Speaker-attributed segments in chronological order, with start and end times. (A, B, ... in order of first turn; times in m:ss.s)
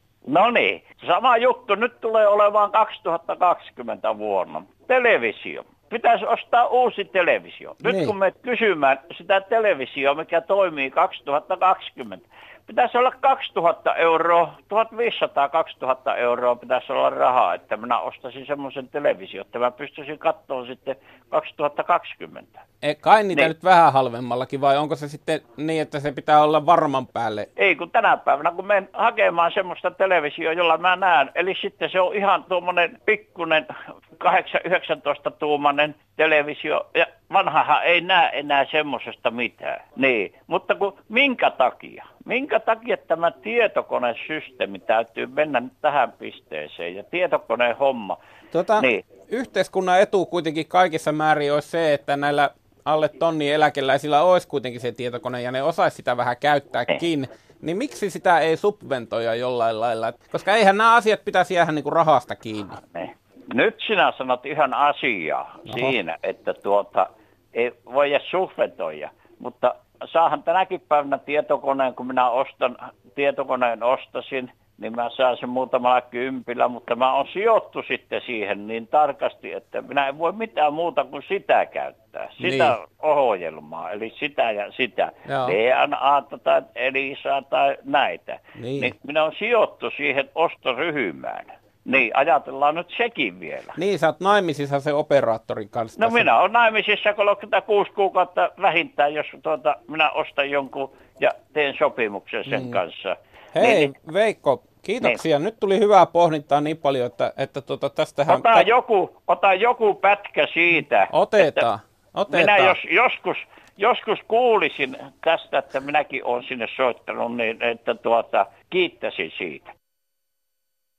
0:00.3-0:22.6 A
0:07.8-0:08.1 B
0:22.8-0:27.5 B
0:27.6-0:33.7 A
0:34.2-0:48.2 A
0:48.5-1:02.8 B
1:02.8-1:33.8 A
1:22.4-1:22.7 B
1:25.2-1:25.5 B
1:28.6-1:28.9 B
1:33.8-1:36.3 B
1:36.0-1:43.9 A
1:42.5-1:42.8 B
1:43.5-1:48.7 B
1:48.3-1:51.6 A
1:51.1-1:52.8 B
1:52.3-1:59.7 A